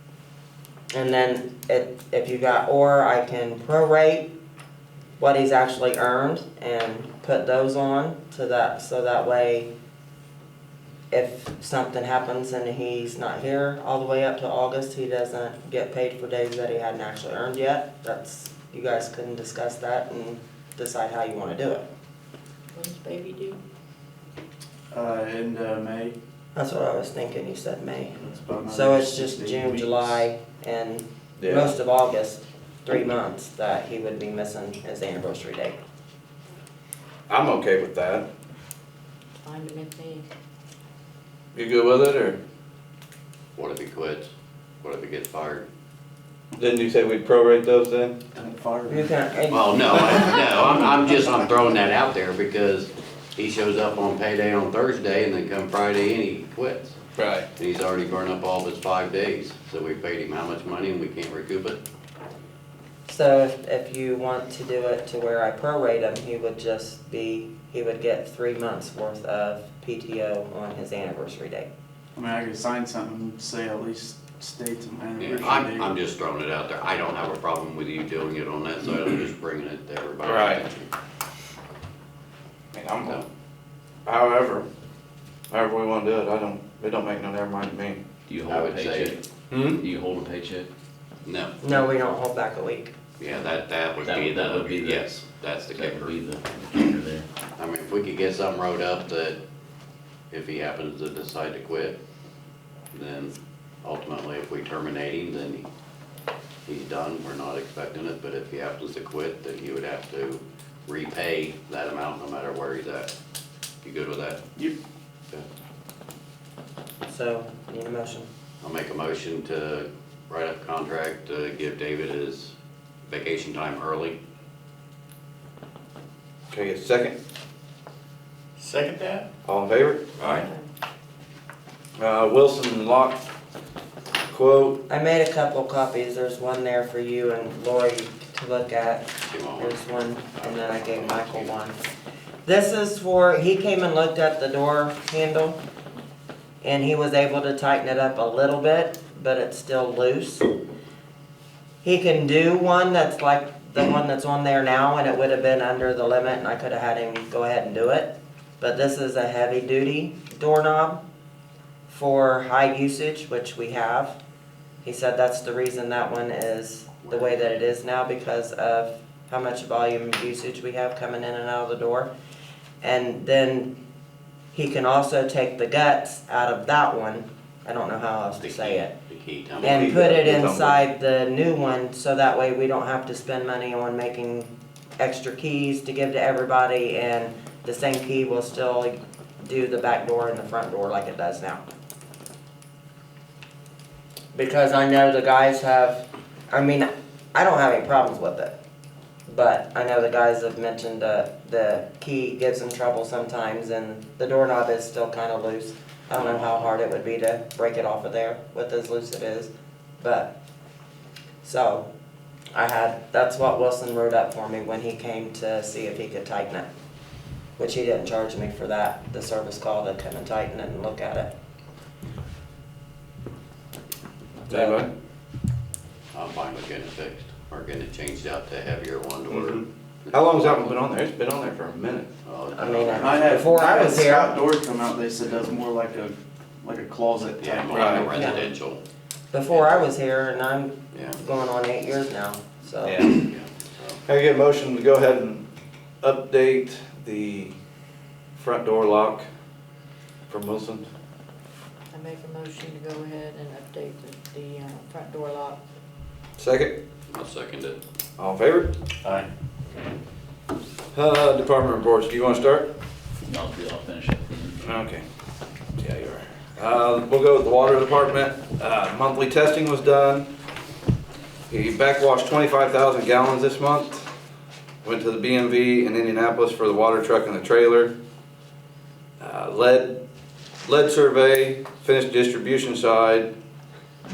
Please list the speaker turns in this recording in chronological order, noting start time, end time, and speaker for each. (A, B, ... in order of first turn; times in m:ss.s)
0:00.9-0:04.3 A
0:05.2-0:09.7 A
0:11.1-0:21.8 A
0:22.8-0:23.6 B
0:24.9-0:26.2 C
0:26.6-0:35.8 A
0:28.2-0:30.3 C
0:31.4-0:31.8 D
0:37.3-0:38.3 D
0:39.4-0:40.2 B
0:41.6-0:42.4 D
0:43.6-0:44.3 E
0:44.8-0:45.7 E
0:46.6-0:48.2 D
0:48.4-0:49.1 C
0:48.9-0:50.4 A
0:49.5-0:57.0 E
0:57.2-0:57.5 D
0:57.6-1:01.8 E
1:03.1-1:11.7 A
1:12.2-1:15.9 C
1:15.2-1:20.9 E
1:20.2-1:20.6 D
1:22.7-1:23.2 D
1:24.1-1:24.7 D
1:25.5-1:28.0 D
1:28.3-1:30.7 F
1:28.5-1:29.2 E
1:29.5-1:29.8 D
1:31.2-1:31.7 E
1:31.6-1:32.9 A
1:33.2-1:36.2 E
1:34.0-1:35.1 F
1:35.7-1:37.3 F
1:37.6-1:39.4 E
1:40.3-1:42.0 E
1:42.9-1:45.7 E
1:46.7-1:53.1 E
1:53.8-1:54.4 E
1:57.1-1:58.3 A
1:58.6-2:02.5 E
2:03.1-2:04.2 E
2:06.5-2:07.1 D
2:08.6-2:09.2 E
2:09.4-2:10.5 D
2:10.2-2:10.7 B
2:12.0-2:13.2 D
2:14.3-2:14.8 D
2:14.9-2:21.8 A
2:19.3-2:21.5 E
2:22.4-2:25.6 A
2:26.6-2:30.5 A
2:31.8-2:41.0 A
2:41.9-2:44.2 A
2:44.8-2:52.1 A
2:47.0-2:47.4 E
2:52.8-2:53.7 A
2:54.5-2:58.9 A
2:58.4-3:00.1 E
2:59.6-3:11.6 A
2:59.6-3:00.8 D
3:14.3-3:18.6 A
3:19.3-3:30.3 A
3:26.2-3:26.6 E
3:31.4-3:31.9 A
3:32.5-3:36.7 A
3:37.6-3:41.3 A
3:44.5-3:44.9 D
3:44.5-3:44.8 A
3:46.1-3:50.8 E
3:50.1-3:52.1 D
3:52.2-3:53.3 E
3:52.6-3:54.4 A
3:52.9-3:58.0 C
3:57.4-3:58.8 E
3:57.7-3:58.1 D
3:58.1-3:58.5 A
3:59.3-4:03.2 A
3:59.5-3:59.9 E
4:00.9-4:01.2 E
4:02.8-4:03.2 D
4:03.2-4:04.0 E
4:04.1-4:05.4 D
4:06.0-4:07.6 D
4:08.4-4:09.3 D
4:10.3-4:10.8 D
4:11.9-4:15.6 B
4:16.4-4:16.8 D
4:17.1-4:17.8 E
4:18.2-4:18.7 D
4:20.9-4:22.7 D
4:23.3-4:24.6 F
4:24.6-4:25.0 D
4:25.8-4:30.3 D
4:31.5-4:34.1 D
4:34.8-4:37.9 D
4:39.2-4:40.0 D
4:40.6-4:43.3 D